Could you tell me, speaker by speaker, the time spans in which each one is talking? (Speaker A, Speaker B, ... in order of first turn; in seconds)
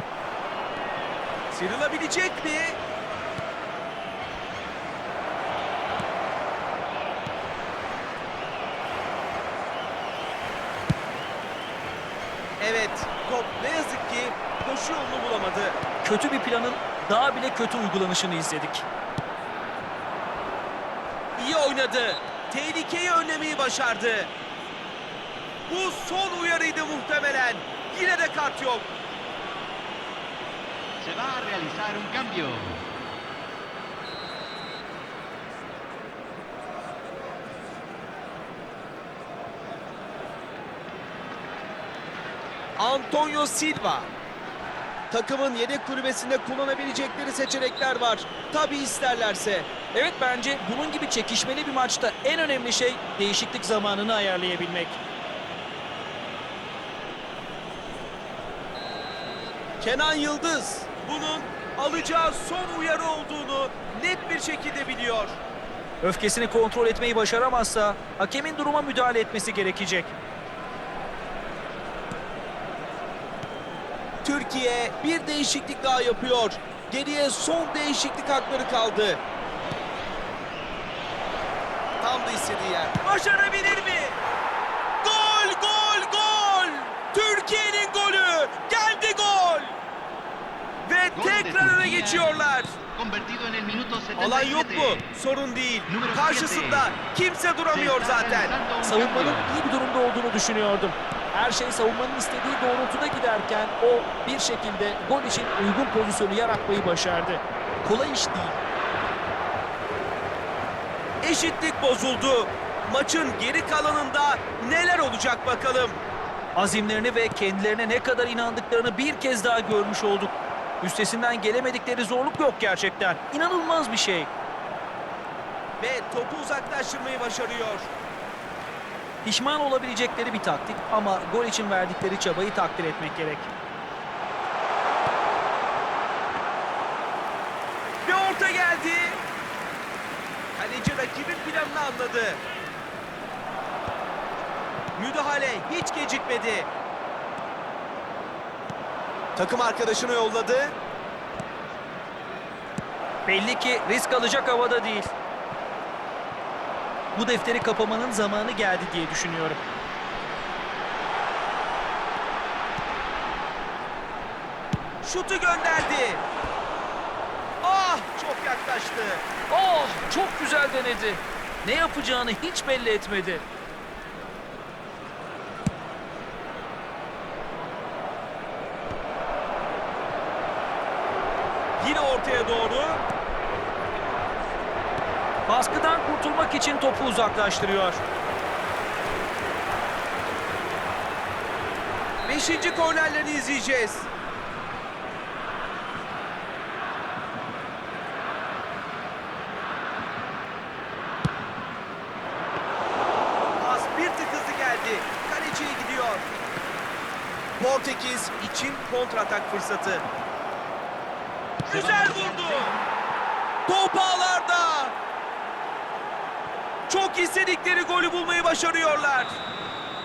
Speaker A: 1.5-2.8, 12.6-15.8, 21.4-24.3, 25.7-28.9, 42.8-44.1, 45.1-49.7, 59.8-65.4, 74.2-79.2, 82.0-84.2, 85.0-89.8, 90.8-92.8, 94.2-98.5, 111.2-116.0, 125.8-127.9, 138.0-139.2, 140.5-142.4, 144.9-146.7, 149.3-150.8, 165.0-166.2, 167.6-169.2, 181.8-183.0, 192.2-194.1, 203.6-206.3, 207.6-210.0, 211.7-212.7, 213.7-214.9, 216.9-219.3
Speaker B: 16.0-18.9, 49.9-55.0, 66.0-70.1, 98.8-108.6, 116.5-124.3, 129.2-133.5, 153.3-155.1, 157.1-159.6, 169.5-173.4, 185.5-188.0
Speaker C: 31.0-32.8, 91.1-95.0, 95.9-97.0, 97.7-99.6, 211.7-212.8